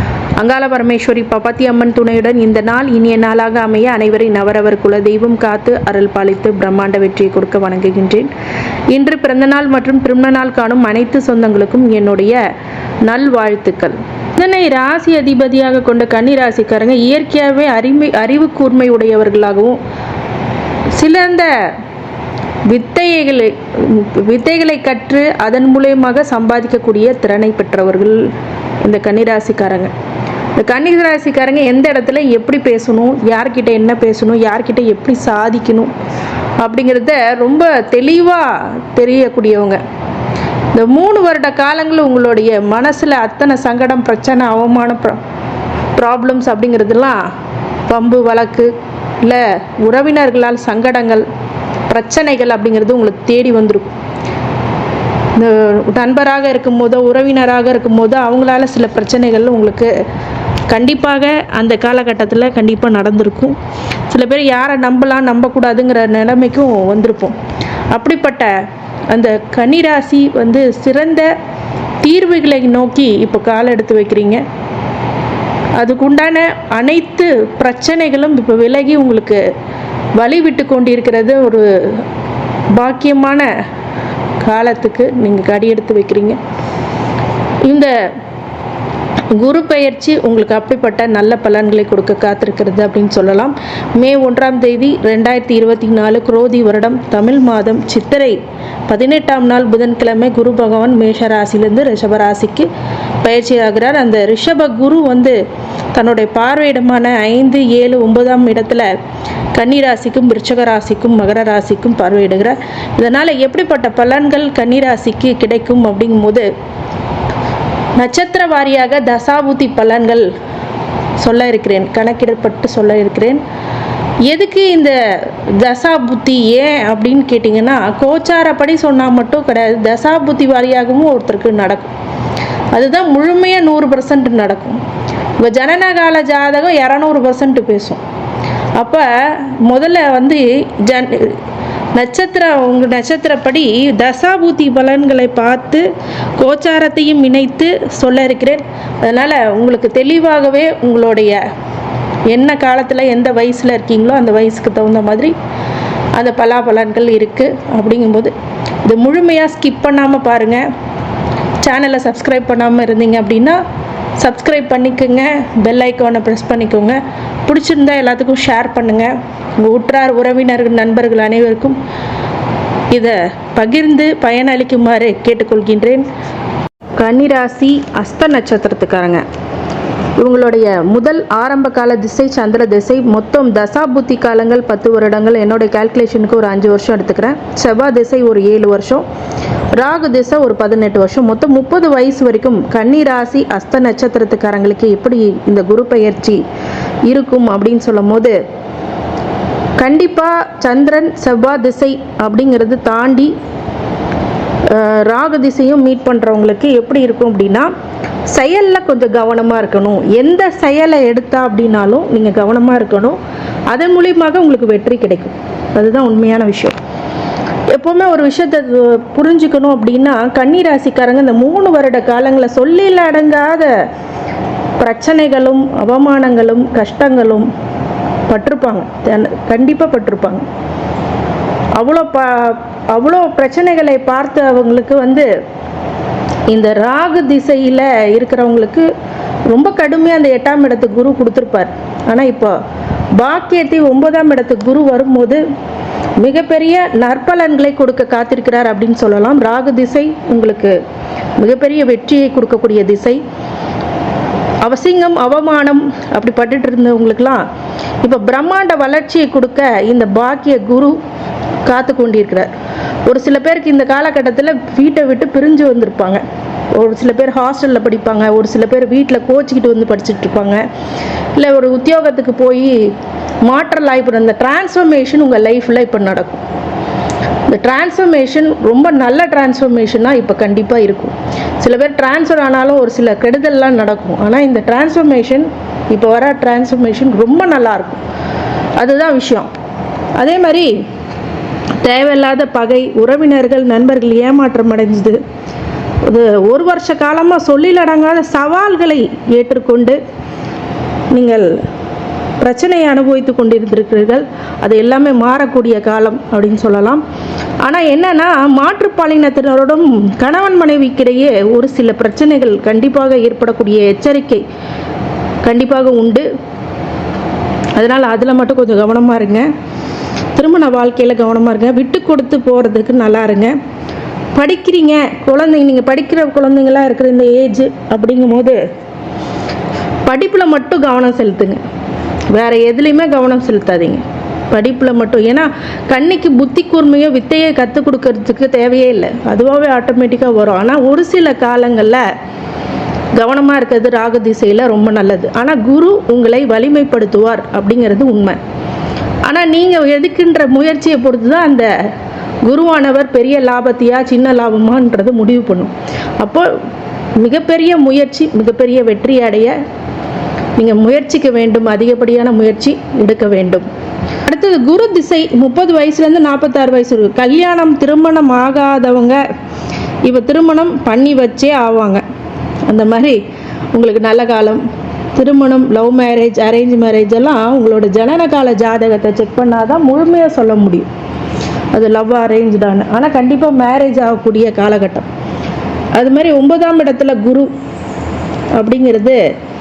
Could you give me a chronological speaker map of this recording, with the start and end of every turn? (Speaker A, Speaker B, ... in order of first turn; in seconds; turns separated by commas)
Speaker A: 0.4-8.3, Speaker A: 8.9-12.4, Speaker A: 13.1-19.8, Speaker A: 21.0-21.5, Speaker A: 22.7-28.2, Speaker A: 28.8-29.9, Speaker A: 30.6-35.9, Speaker A: 36.6-39.8, Speaker A: 40.7-45.2, Speaker A: 46.0-47.2, Speaker A: 47.9-48.7, Speaker A: 49.2-51.2, Speaker A: 51.9-53.9, Speaker A: 55.4-59.9, Speaker A: 60.7-63.6, Speaker A: 64.1-67.4, Speaker A: 67.9-68.5, Speaker A: 69.1-71.3, Speaker A: 72.0-74.4, Speaker A: 75.8-79.4, Speaker A: 80.2-82.0, Speaker A: 82.8-83.5, Speaker A: 84.4-86.4, Speaker A: 87.7-87.9, Speaker A: 89.3-98.4, Speaker A: 98.9-102.7, Speaker A: 103.2-105.4, Speaker A: 105.9-108.9, Speaker A: 109.5-116.5, Speaker A: 118.0-120.3, Speaker A: 121.2-123.4, Speaker A: 124.3-125.0, Speaker A: 125.6-131.9, Speaker A: 132.8-134.8, Speaker A: 135.4-138.0, Speaker A: 138.8-141.4, Speaker A: 141.9-151.4, Speaker A: 152.3-155.3, Speaker A: 156.2-158.3, Speaker A: 158.8-160.7, Speaker A: 161.6-163.6, Speaker A: 164.2-171.8, Speaker A: 172.9-176.1, Speaker A: 177.0-179.2, Speaker A: 180.2-189.1, Speaker A: 189.7-196.4, Speaker A: 197.1-198.4, Speaker A: 199.8-203.3, Speaker A: 204.7-207.7, Speaker A: 208.3-213.2, Speaker A: 213.7-216.8, Speaker A: 217.7-223.7, Speaker A: 224.8-227.5, Speaker A: 228.3-230.5, Speaker A: 231.8-235.3, Speaker A: 236.5-238.9, Speaker A: 239.5-242.5, Speaker A: 243.2-245.4, Speaker A: 246.2-250.8, Speaker A: 251.4-253.2, Speaker A: 254.6-257.4, Speaker A: 258.0-261.0, Speaker A: 261.6-262.5, Speaker A: 263.1-266.2, Speaker A: 266.7-270.6, Speaker A: 271.4-272.7, Speaker A: 273.4-276.4, Speaker A: 277.5-288.0, Speaker A: 288.8-289.5, Speaker A: 290.2-290.7, Speaker A: 291.8-295.2, Speaker A: 296.1-300.0, Speaker A: 301.1-301.5, Speaker A: 302.4-307.0, Speaker A: 307.6-314.4, Speaker A: 315.4-316.3, Speaker A: 317.8-319.5, Speaker A: 320.4-323.6, Speaker A: 324.4-328.6, Speaker A: 330.1-331.6, Speaker A: 332.3-342.0, Speaker A: 343.2-348.4, Speaker A: 349.3-351.7, Speaker A: 352.4-356.5, Speaker A: 357.2-359.6, Speaker A: 360.6-363.7, Speaker A: 364.3-369.2, Speaker A: 370.1-372.0, Speaker A: 372.7-373.2, Speaker A: 373.7-374.6, Speaker A: 375.2-380.9, Speaker A: 381.7-385.1, Speaker A: 386.0-387.5, Speaker A: 388.6-389.2